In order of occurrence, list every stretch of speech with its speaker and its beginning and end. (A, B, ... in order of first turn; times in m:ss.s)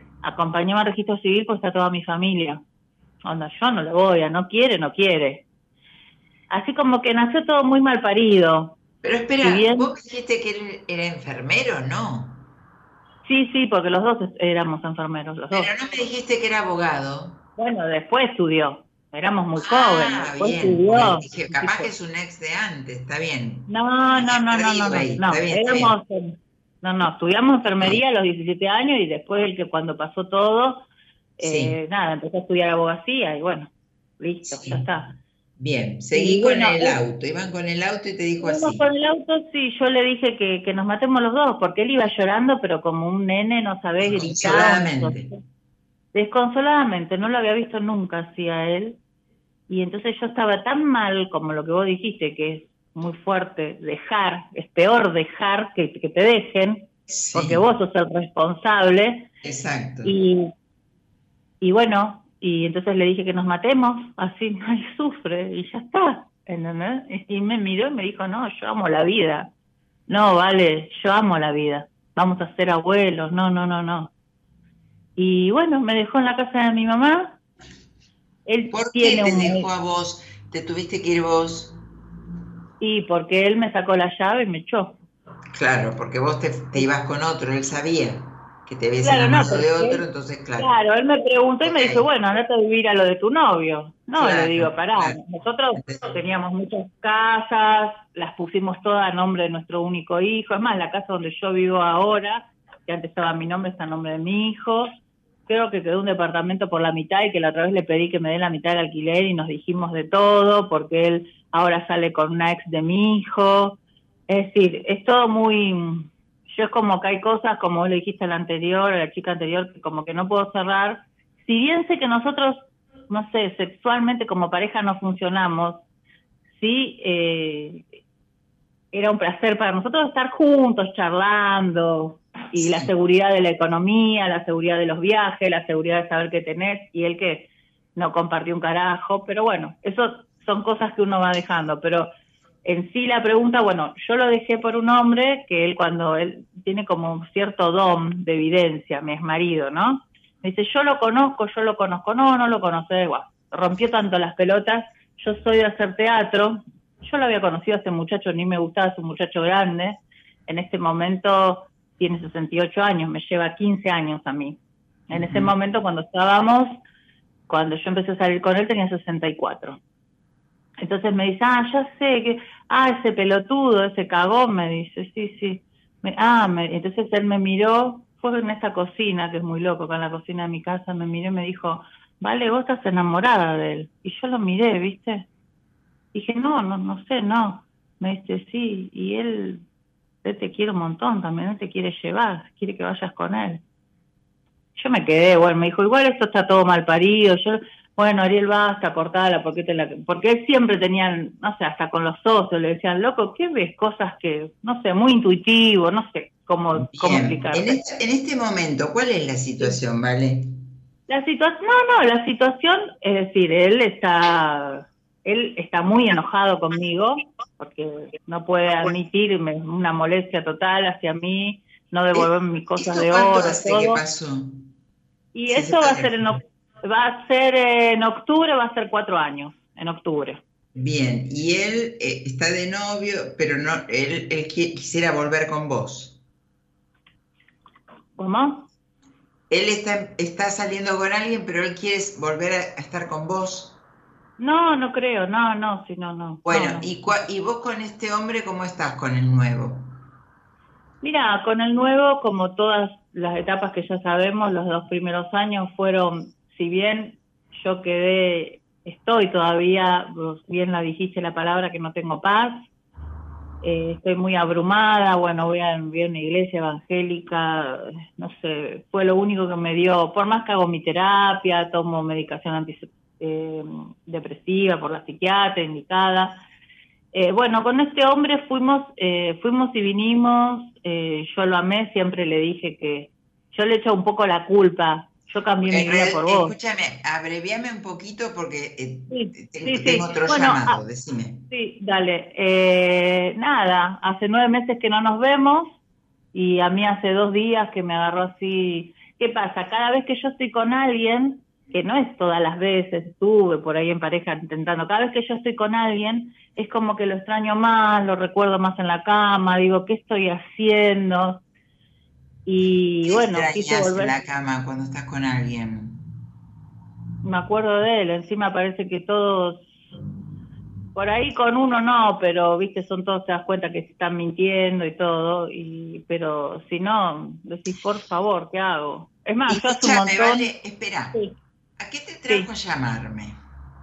0:00.2-0:02.6 A
0:03.2-0:05.4 A
0:06.5-0:08.8 A
0:09.0-0:12.4 B
0:09.4-0:09.9 A
0:13.2-0:15.7 A
0:15.5-0:17.4 B
0:17.6-0:21.9 A
0:19.6-0:25.9 B
0:23.7-0:30.8 A
0:31.4-0:35.2 A
0:31.4-0:31.8 B
0:34.4-0:34.9 B
0:35.6-0:38.8 B
0:36.1-0:37.0 A
0:38.4-0:45.3 A
0:44.0-0:45.3 B
0:46.1-0:49.0 A
0:49.7-0:59.3 A
0:57.1-0:57.6 B
0:59.4-1:00.1 B
1:00.0-1:00.5 A
1:01.6-1:09.5 A
1:10.1-1:14.1 A
1:15.2-1:17.4 A
1:18.4-1:19.7 A
1:18.7-1:21.7 B
1:22.8-1:25.0 A
1:25.5-1:30.7 B
1:29.0-1:30.0 A
1:30.6-1:44.9 A
1:31.6-1:32.1 B
1:34.2-1:35.2 B
1:35.8-1:36.1 B
1:45.5-1:53.8 A
1:54.3-2:05.8 A
2:06.6-2:07.8 A
2:08.9-2:22.1 A
2:12.6-2:12.9 B
2:22.6-2:44.6 A
2:45.1-2:45.5 B
2:45.1-2:46.7 A
2:47.5-2:49.8 A
2:50.8-3:05.3 A
3:06.1-3:09.6 A
3:10.2-3:13.6 A
3:14.8-3:27.8 A
3:26.7-3:30.6 B
3:31.1-3:44.0 A
3:42.1-3:44.6 B
3:45.3-3:50.4 A
3:45.5-3:46.4 B
3:50.7-3:56.2 B
3:58.2-3:58.7 A
3:59.5-4:03.8 B
4:04.4-4:06.9 A
4:06.4-4:09.9 B
4:11.0-4:22.6 A
4:23.6-4:36.4 A
4:37.1-4:46.6 A
4:45.7-4:51.4 B
4:49.1-4:50.8 A
4:51.5-4:55.7 A
4:56.3-5:11.4 A
5:12.4-5:14.1 A
5:13.0-5:16.0 B
5:17.2-5:19.7 A
5:20.9-5:30.5 A
5:29.5-5:31.2 B
5:31.8-5:33.4 B